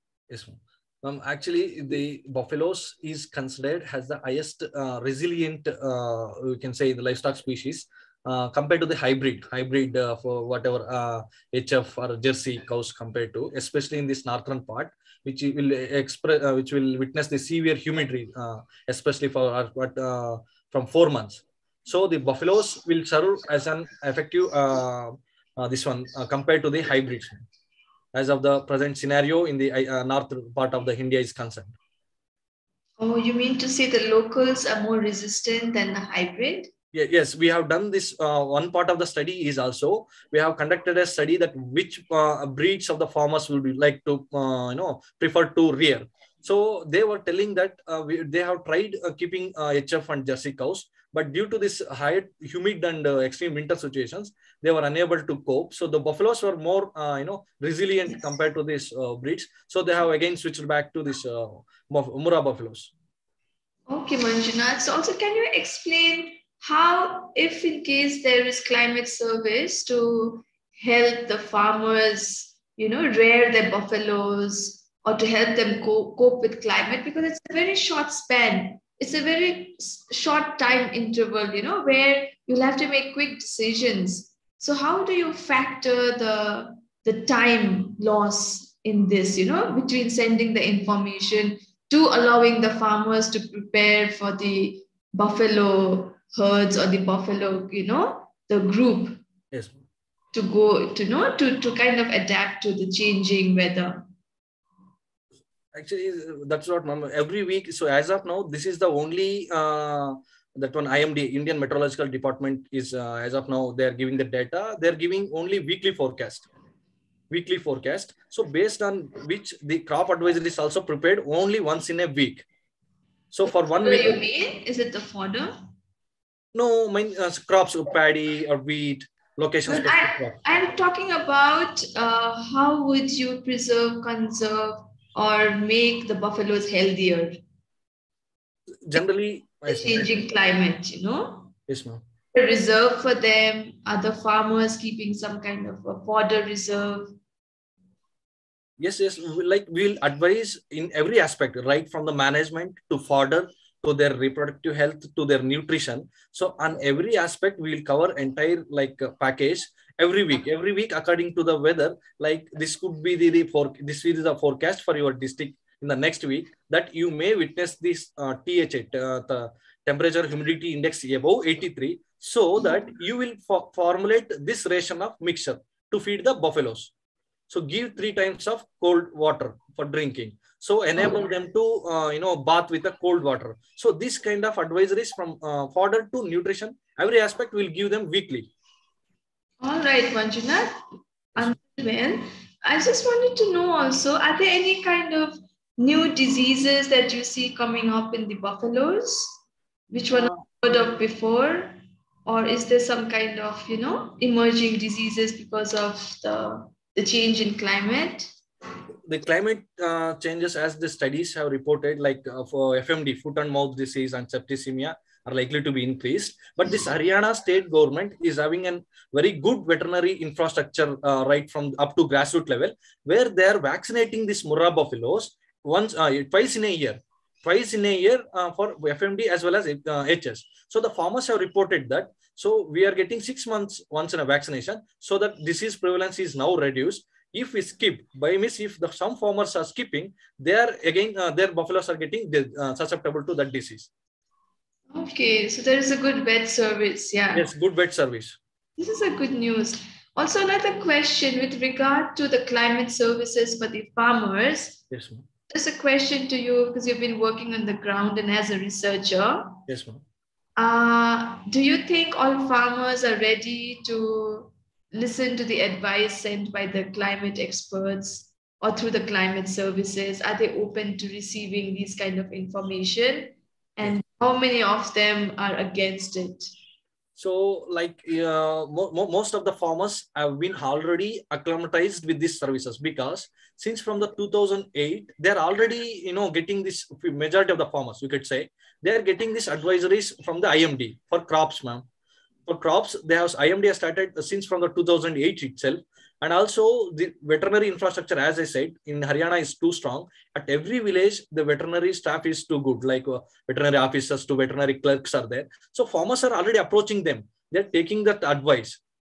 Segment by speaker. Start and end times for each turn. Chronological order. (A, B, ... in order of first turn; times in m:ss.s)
0:00.3-0:27.4 A
0:28.1-0:31.8 A
0:33.0-0:36.7 B
0:36.9-1:02.9 A
1:03.9-1:39.2 B
1:39.5-1:39.8 A
1:40.3-1:44.0 B
1:45.7-1:56.5 A
1:57.3-2:02.4 A
2:03.3-2:04.2 A
2:03.4-2:05.6 B
2:06.5-2:10.4 A
2:09.7-2:17.4 B
2:18.8-2:20.2 A
2:19.6-2:21.5 B
2:21.7-2:22.0 A
2:22.3-2:27.1 B
2:28.8-2:56.9 A
2:57.5-3:08.5 A
3:09.6-3:10.8 B
3:11.4-3:19.4 B
3:19.9-3:28.3 B
3:29.0-4:03.9 A
4:04.9-4:07.5 B
4:07.3-4:08.4 A
4:08.8-4:14.8 B
4:14.9-4:15.2 A
4:15.5-4:19.6 B
4:19.7-4:20.0 A
4:20.6-4:36.5 B
4:37.2-4:51.8 A
4:52.5-5:08.8 A